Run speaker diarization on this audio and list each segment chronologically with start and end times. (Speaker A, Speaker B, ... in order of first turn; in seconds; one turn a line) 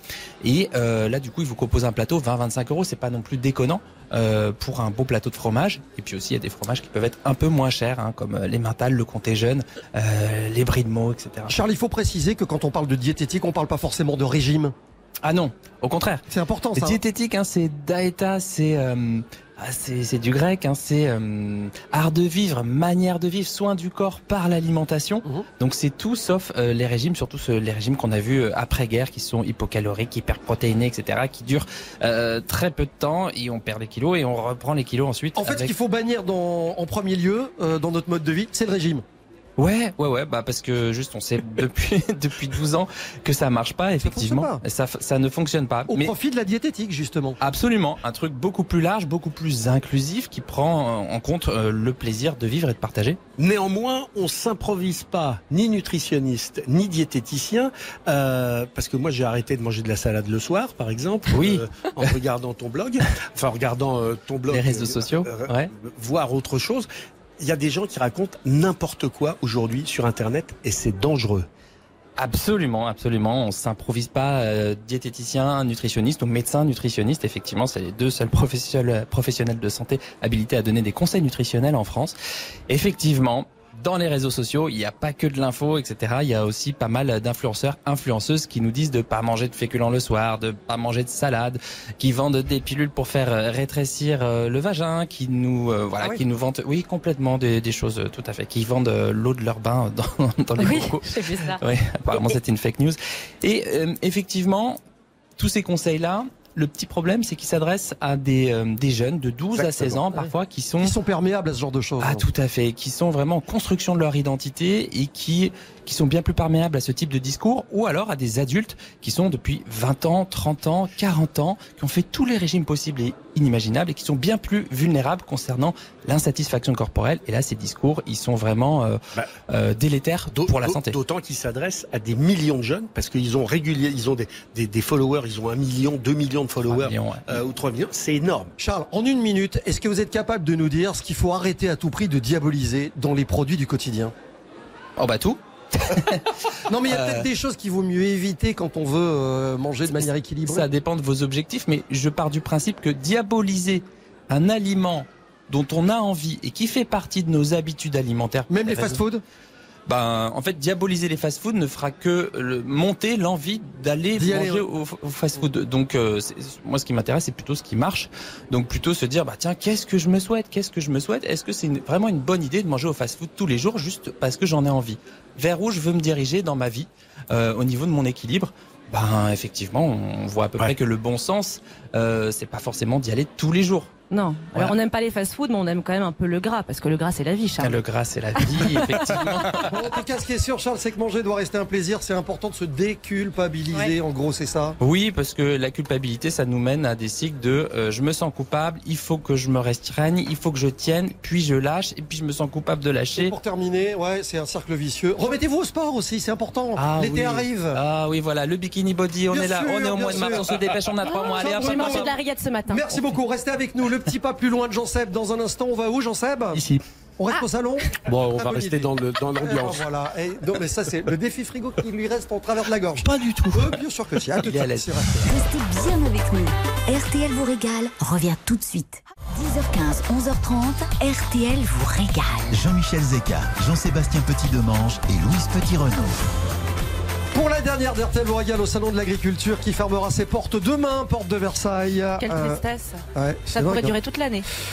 Speaker A: 0.4-11.6
Speaker B: 11.5-14.7
Speaker A: 15.2-16.2
Speaker B: 16.3-17.0
Speaker A: 16.8-35.7
Speaker B: 35.3-39.0
Speaker A: 39.6-46.1
Speaker B: 44.0-44.6
Speaker B: 45.9-47.4
Speaker A: 47.4-53.2
Speaker C: 53.4-66.9
Speaker A: 61.3-62.1
Speaker A: 64.5-65.7
Speaker C: 67.4-71.5
Speaker A: 72.2-82.1
Speaker A: 82.7-104.8
Speaker D: 100.6-101.6
Speaker A: 105.4-110.9
Speaker C: 109.5-110.0
Speaker B: 110.8-112.3
Speaker A: 112.0-131.0
Speaker C: 130.3-138.5
Speaker A: 136.7-137.4
Speaker B: 138.6-144.1
Speaker A: 145.0-146.2
Speaker B: 146.7-150.7
Speaker A: 146.8-147.2
Speaker A: 149.9-159.0
Speaker B: 158.5-159.2
Speaker A: 159.9-183.9
Speaker B: 164.1-164.6
Speaker D: 184.1-187.8
Speaker A: 187.6-189.7
Speaker B: 189.6-194.8
Speaker A: 194.8-203.3
Speaker B: 203.2-207.8
Speaker A: 206.8-212.1
Speaker B: 209.3-210.5
Speaker D: 211.1-212.9
Speaker B: 211.3-212.1
Speaker B: 212.7-216.6
Speaker C: 216.5-216.8
Speaker B: 217.2-218.9
Speaker C: 218.1-219.8
Speaker B: 219.4-225.4
Speaker A: 223.2-223.6
Speaker A: 224.4-224.8
Speaker E: 225.2-232.6
Speaker F: 232.5-236.2
Speaker B: 237.3-242.6
Speaker D: 242.2-243.0
Speaker B: 243.1-243.9
Speaker D: 243.5-244.4